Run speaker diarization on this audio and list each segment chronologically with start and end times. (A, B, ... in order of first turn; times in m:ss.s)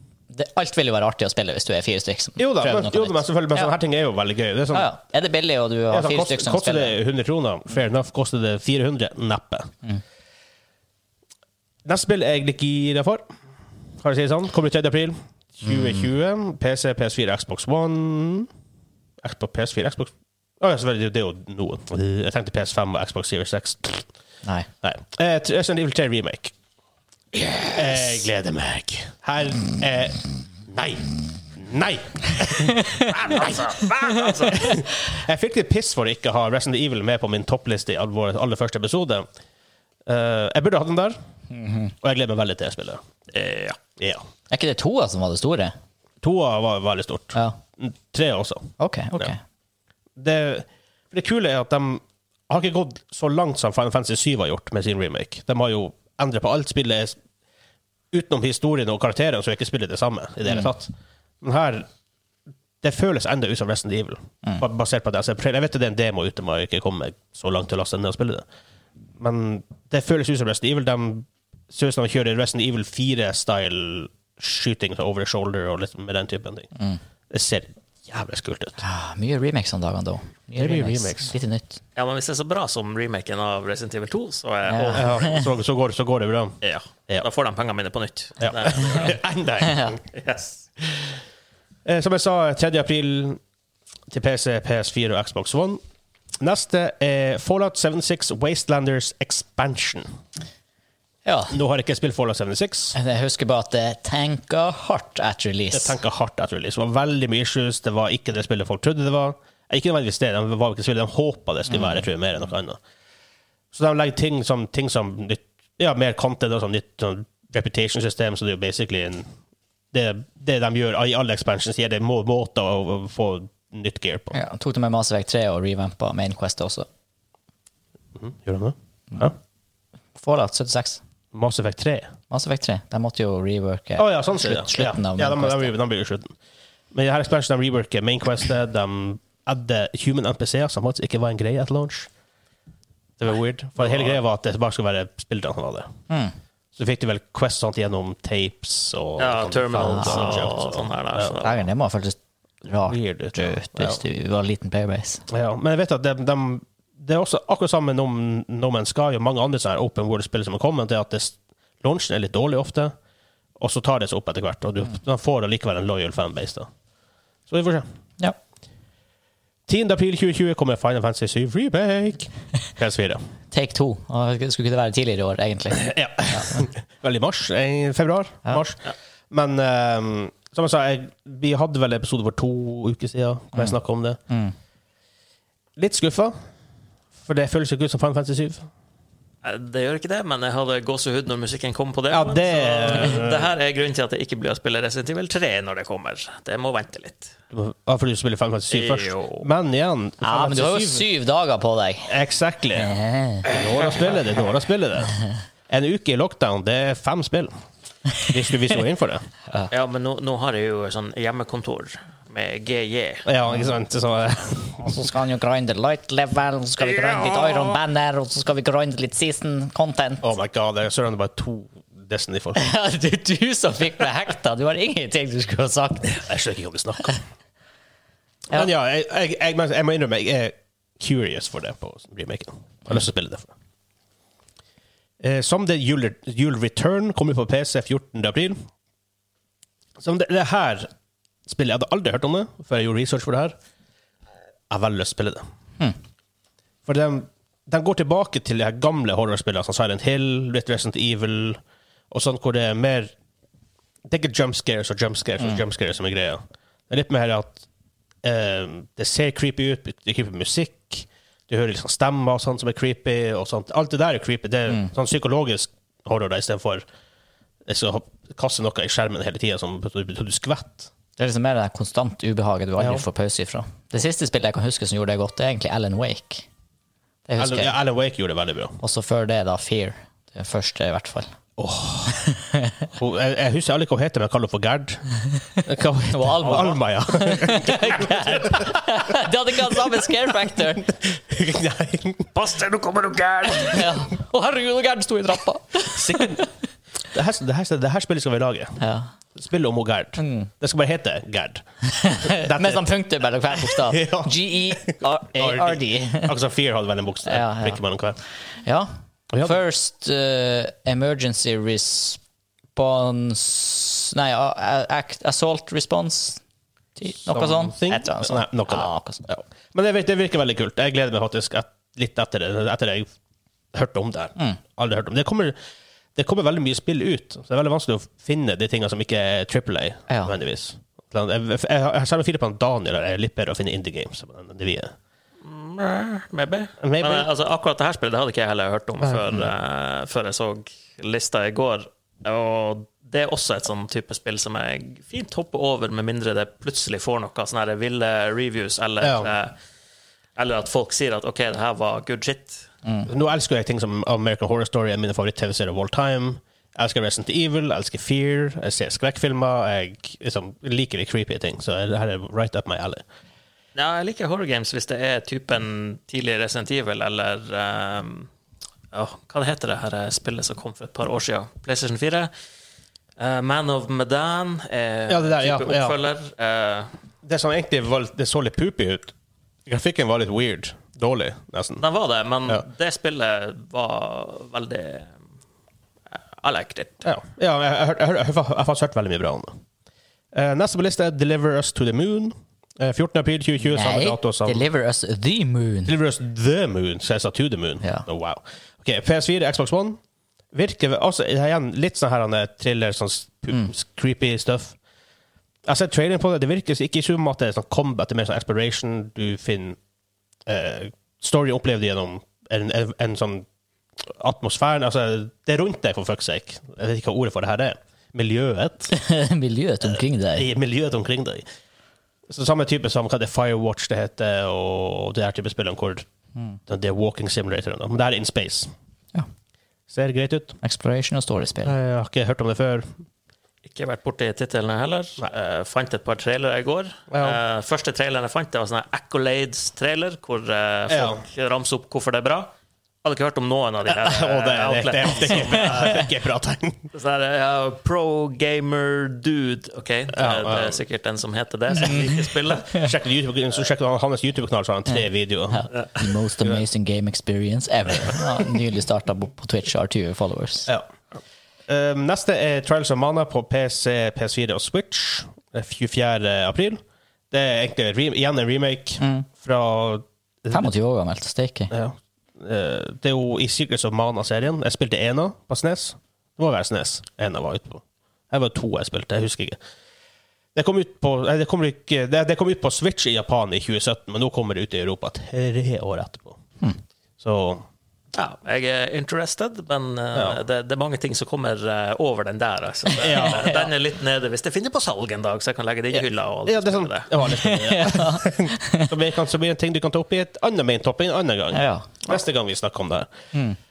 0:00.3-0:03.7 A
0:02.4-0:04.9 B
0:04.7-0:06.9 A
0:05.9-0:09.7 B
0:11.8-0:13.2 B
0:14.0-0:18.5 B
0:19.2-0:24.1 B
0:24.8-0:26.5 B
0:27.7-0:33.6 B
0:33.0-0:34.7 C
0:34.4-0:39.3 B
0:40.0-0:41.2 B
0:41.5-0:41.9 A
0:42.0-0:43.0 B
0:43.3-0:43.8 C
0:44.0-0:44.2 B
0:44.5-0:45.7 A
0:46.2-0:49.3 B
0:48.8-0:49.4 A
0:50.2-0:57.2 B
0:58.1-1:01.8 B
1:02.8-1:08.4 B
1:09.2-1:16.7 B
1:17.3-1:18.8 B
1:18.8-1:21.8 A
1:20.6-1:21.3 B
1:22.0-1:25.3 C
1:24.7-1:25.4 A
1:24.9-1:27.2 B
1:26.6-1:29.2 C
1:28.4-1:30.0 B
1:30.1-1:30.6 C
1:31.8-1:33.4 B
1:34.1-1:35.8 B
1:36.4-1:40.1 B
1:41.2-1:41.6 A
1:41.5-1:43.0 B
1:42.9-1:46.0 A
1:45.7-1:52.8 B
1:51.7-1:52.0 A
1:53.7-1:59.3 B
1:59.9-2:04.3 B
2:04.3-2:06.9 A
2:08.2-2:09.3 B
2:10.2-2:11.0 A
2:11.3-2:12.1 B
2:12.3-2:15.7 A
2:14.0-2:16.3 B
2:16.9-2:22.1 B
2:23.2-2:25.9 B
2:26.1-2:26.3 A
2:26.8-2:31.4 B
2:29.2-2:31.6 C
2:29.8-2:30.4 A
2:31.4-2:35.2 A
2:32.9-2:34.0 B
2:35.3-2:42.9 B
2:43.6-2:46.7 B
2:47.5-2:47.8 B
2:49.7-2:53.2 B
2:53.5-2:56.6 A
2:55.7-3:04.2 B
3:05.8-3:06.3 B
3:07.2-3:08.7 B
3:09.4-3:17.3 C
3:12.1-3:13.5 B
3:17.5-3:21.1 B
3:18.7-3:19.5 C
3:20.2-3:22.1 A
3:22.1-3:22.9 B
3:22.8-3:23.4 A
3:23.4-3:25.2 B
3:25.7-3:27.5 B
3:28.2-3:29.2 B
3:29.7-3:33.2 C
3:33.2-3:34.9 B
3:34.8-3:40.2 A
3:40.2-3:42.7 B
3:42.5-3:46.2 A
3:46.1-3:47.1 B
3:48.5-3:53.5 B
3:55.2-3:58.6 B
4:00.0-4:00.9 B
4:01.5-4:03.5 B
4:04.7-4:05.4 B
4:06.8-4:11.6 B
4:12.1-4:13.1 B
4:14.0-4:17.7 B
4:18.2-4:26.8 B
4:27.6-4:30.9 B
4:31.2-4:36.5 A
4:32.8-4:33.0 B
4:37.3-4:37.7 A
4:37.4-4:38.8 B
4:38.8-4:41.3 A
4:41.6-4:42.2 B
4:42.2-4:42.8 A
4:43.0-4:45.0 B
4:45.6-4:49.1 B
4:46.1-4:50.9 A
4:50.8-4:52.3 B
4:52.3-4:53.9 C
4:53.5-4:56.5 A
4:55.9-4:56.4 B
4:57.1-4:58.8 B
4:58.8-4:59.1 A
4:59.3-5:02.9 B
5:00.2-5:00.5 A
5:01.9-5:06.3 A
5:03.6-5:08.2 B
5:07.2-5:07.8 A
5:08.6-5:12.2 A
5:09.3-5:09.6 B
5:12.7-5:16.4 A
5:17.0-5:19.2 A
5:17.2-5:23.1 B
5:23.7-5:25.5 B
5:26.2-5:34.9 B
5:30.1-5:30.3 A
5:35.4-5:49.6 C
5:36.8-5:37.3 B
5:39.0-5:39.5 B
5:49.0-5:49.3 B
5:50.4-5:52.7 C
5:53.1-6:03.0 B
6:03.7-6:08.3 C
6:08.9-6:12.3 C
6:13.2-6:16.9 C
6:15.1-6:16.0 B
6:17.2-6:19.1 B
6:19.6-6:21.8 B
6:21.8-6:25.1 C
6:26.4-6:27.0 C
6:27.0-6:29.6 B
6:30.3-6:34.6 B
6:33.7-6:35.9 A
6:35.8-6:40.0 B
6:40.5-6:44.8 B
6:45.6-6:49.8 B
6:50.4-6:53.4 B
6:54.0-6:58.9 B
6:58.9-7:00.5 A
6:59.8-7:01.4 B
7:02.3-7:06.0 B
7:06.7-7:08.7 B
7:09.9-7:10.6 B
7:10.6-7:11.7 A
7:11.6-7:12.9 B
7:13.6-7:22.5 C
7:17.1-7:17.4 B
7:20.9-7:21.2 B
7:23.0-7:26.1 C
7:23.8-7:26.9 B
7:26.9-7:32.8 C
7:30.1-7:30.8 B
7:32.7-7:35.7 B
7:35.5-7:40.7 A
7:41.7-7:50.7 B
7:49.0-7:49.3 A
7:50.5-7:51.7 A
7:51.7-7:59.6 B
8:00.5-8:06.4 B
8:07.2-8:07.6 B
8:08.1-8:17.1 C
8:10.1-8:10.4 B
8:13.0-8:13.6 B
8:13.2-8:13.5 A
8:15.9-8:23.1 B
8:17.2-8:18.9 A
8:21.5-8:21.9 A